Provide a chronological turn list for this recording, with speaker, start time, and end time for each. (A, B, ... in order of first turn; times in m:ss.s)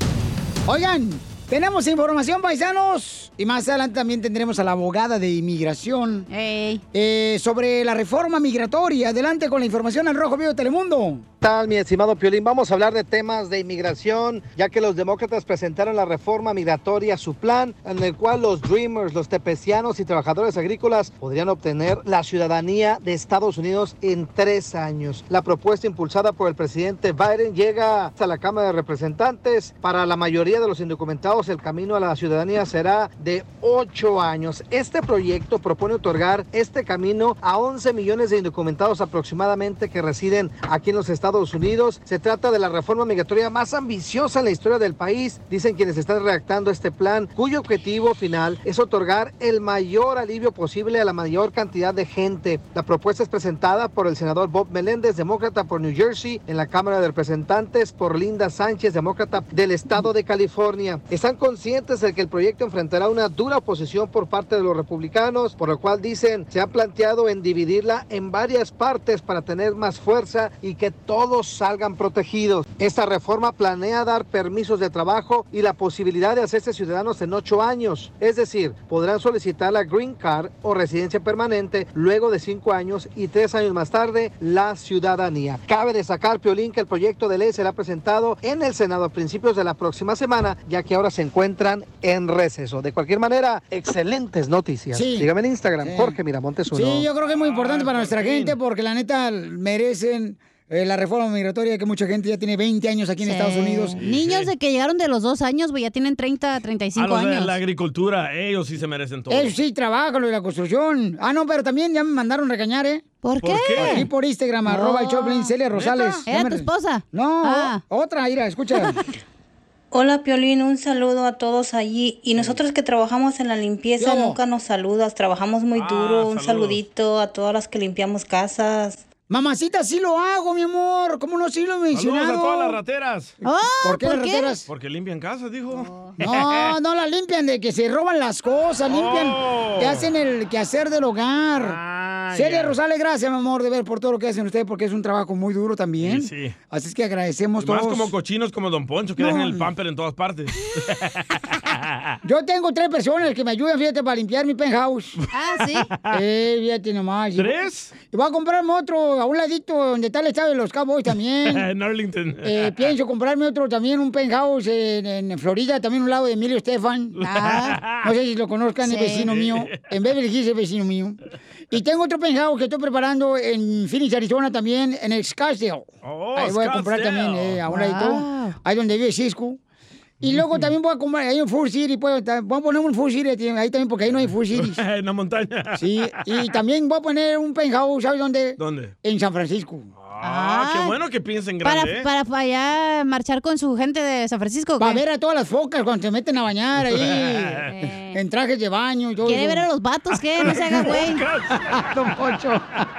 0:00.7-0:06.3 A
0:06.3-0:06.8 B
0:06.9-0:11.2 A
0:11.4-1:37.1 C
1:34.9-1:35.3 A
1:35.8-1:36.2 A
1:36.7-1:44.0 A
1:37.2-1:38.6 D
1:43.2-1:47.6 B
1:44.0-1:44.5 D
1:46.9-1:49.6 D
1:49.3-1:53.0 A
1:53.2-1:54.1 B
1:53.4-1:54.1 D
1:53.8-1:59.0 A
1:54.6-1:55.5 B
1:55.7-1:56.3 D
1:56.3-1:57.8 B
1:59.9-2:09.0 E
2:04.0-2:04.4 A
2:05.7-2:06.8 D
2:09.3-2:12.8 A
2:11.9-2:13.3 D
2:13.4-2:14.6 B
2:13.8-2:14.6 A
2:14.7-2:16.7 D
2:16.2-2:21.8 A
2:18.9-2:20.1 D
2:21.5-2:22.8 D
2:22.3-2:28.1 A
2:26.0-2:26.6 D
2:27.6-2:31.0 D
2:29.2-2:29.7 A
2:32.2-2:35.2 A
2:35.3-2:35.9 B
2:36.1-2:37.6 A
2:37.4-2:37.9 D
2:38.1-2:41.7 A
2:41.4-2:42.9 D
2:42.4-2:47.2 A
2:47.2-2:48.1 D
2:47.2-2:47.8 B
2:48.0-2:51.2 A
2:48.8-2:49.3 B
2:49.3-2:49.8 D
2:51.7-2:59.6 A
2:56.0-2:57.6 D
2:57.7-2:58.6 B
3:00.2-3:04.8 A
3:00.2-3:00.7 D
3:04.5-3:06.1 D
3:05.8-3:09.9 A
3:08.6-3:08.9 D
3:10.0-3:12.1 D
3:10.2-3:11.0 B
3:11.6-3:15.0 B
3:14.8-3:19.6 A
3:16.9-3:17.7 D
3:17.7-3:18.2 B
3:19.2-3:21.2 B
3:20.1-3:22.0 D
3:21.7-3:22.8 A